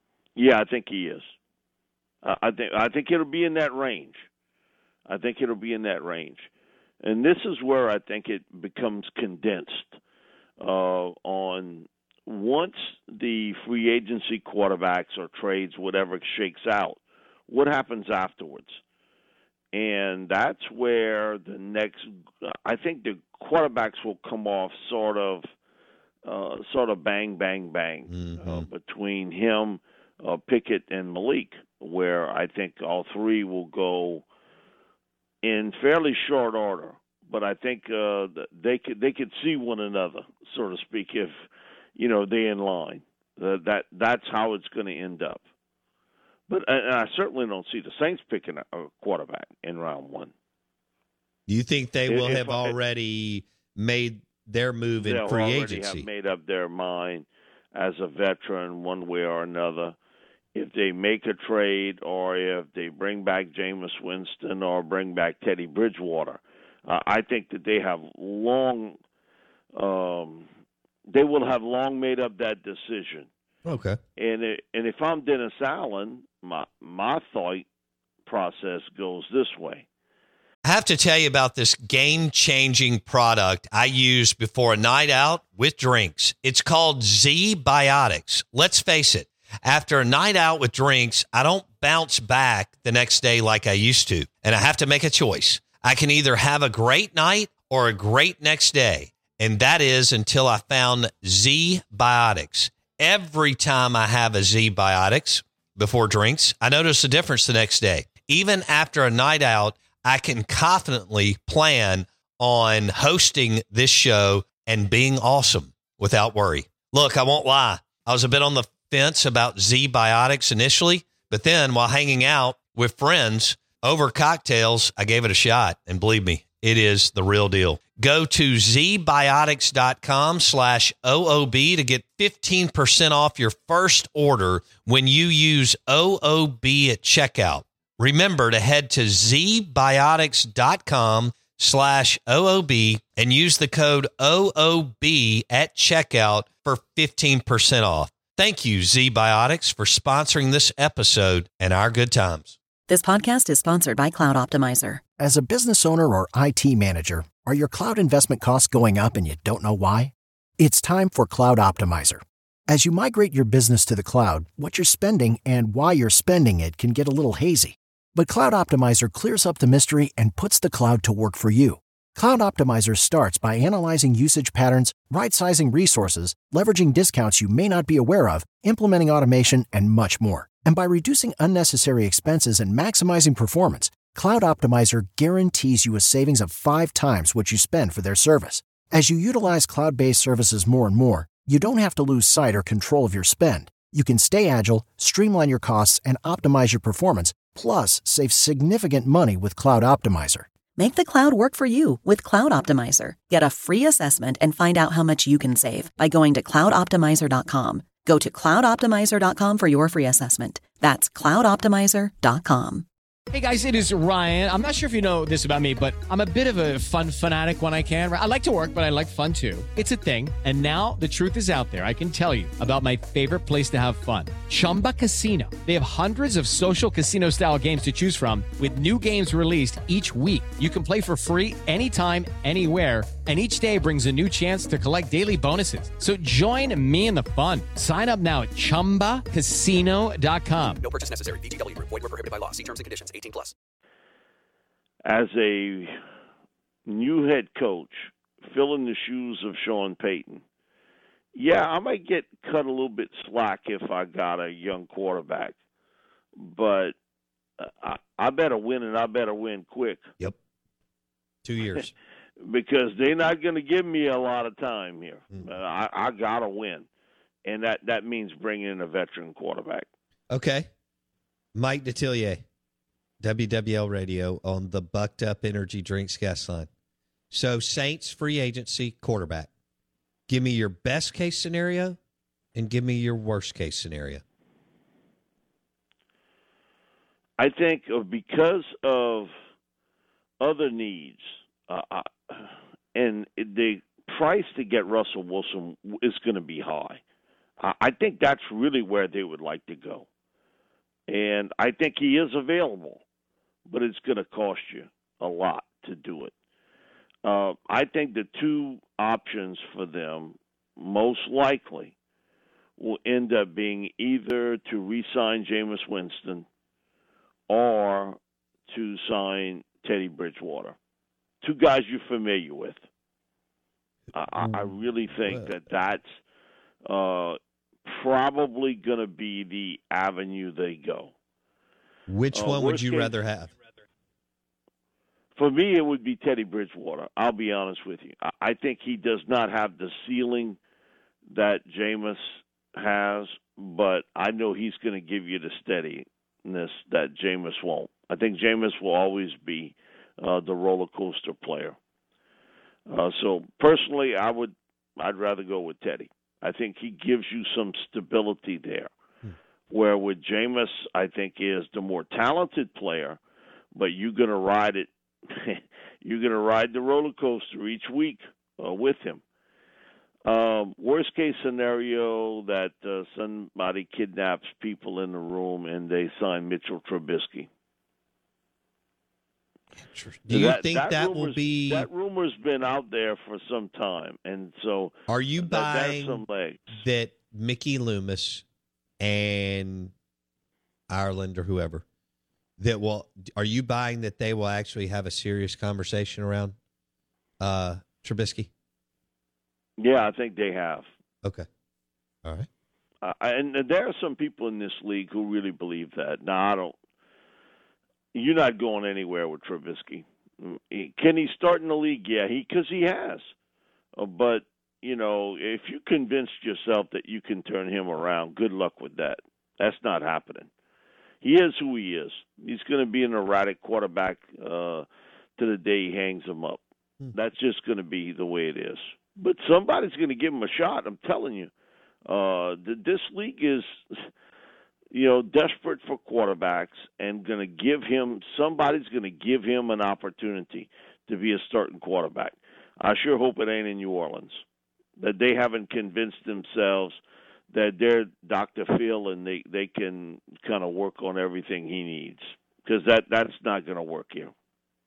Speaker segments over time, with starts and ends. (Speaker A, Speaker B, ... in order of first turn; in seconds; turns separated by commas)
Speaker A: 0.4-1.3, Speaker A: 2.2-4.2, Speaker A: 5.1-6.5, Speaker A: 7.0-10.0, Speaker A: 10.6-18.8, Speaker A: 19.7-25.4, Speaker A: 26.2-34.2, Speaker B: 28.1-28.7, Speaker A: 35.4-41.3, Speaker A: 42.0-45.4, Speaker A: 46.5-50.3, Speaker B: 51.5-56.1, Speaker A: 52.1-52.8, Speaker A: 55.0-60.0, Speaker A: 60.5-69.0, Speaker A: 69.8-70.5, Speaker A: 71.1-73.3, Speaker B: 73.7-74.0, Speaker A: 74.2-77.7, Speaker A: 78.3-79.9, Speaker B: 80.7-152.6, Speaker C: 152.9-155.0, Speaker D: 155.2-200.5, Speaker C: 200.8-212.9, Speaker E: 213.3-240.8, Speaker F: 240.8-243.5, Speaker A: 245.1-245.9, Speaker A: 246.9-250.4, Speaker A: 251.3-255.6, Speaker A: 256.4-256.9, Speaker A: 257.6-260.1, Speaker B: 261.4-261.9, Speaker A: 262.4-266.9, Speaker A: 267.4-269.9, Speaker B: 270.3-270.7, Speaker B: 271.6-272.4, Speaker B: 273.2-276.7, Speaker B: 277.3-279.5, Speaker B: 280.3-282.0, Speaker B: 282.6-284.2, Speaker A: 287.4-289.3, Speaker A: 290.4-297.0, Speaker A: 297.6-300.1, Speaker A: 301.1-303.0, Speaker A: 303.7-306.3, Speaker A: 307.2-311.9, Speaker A: 312.8-316.5, Speaker A: 317.5-320.8, Speaker A: 321.4-322.8, Speaker A: 324.1-326.1, Speaker B: 324.4-324.6, Speaker A: 326.9-331.1, Speaker B: 332.1-333.5, Speaker A: 332.3-333.2, Speaker A: 335.4-340.6, Speaker A: 341.3-351.8, Speaker A: 352.9-358.9, Speaker A: 359.7-363.2, Speaker A: 363.8-369.2, Speaker A: 370.3-377.5, Speaker B: 379.8-381.9, Speaker A: 380.3-386.6, Speaker B: 385.1-386.2, Speaker B: 386.7-388.4, Speaker B: 389.0-389.9, Speaker B: 390.9-391.8, Speaker B: 392.6-396.6, Speaker B: 397.4-398.5, Speaker A: 399.8-400.9, Speaker A: 403.0-406.8, Speaker A: 408.1-413.3, Speaker A: 414.0-420.5, Speaker A: 421.2-424.9, Speaker A: 425.4-426.6, Speaker A: 427.1-431.5, Speaker A: 432.1-434.1, Speaker A: 434.9-444.4, Speaker A: 445.0-447.0, Speaker A: 447.5-454.3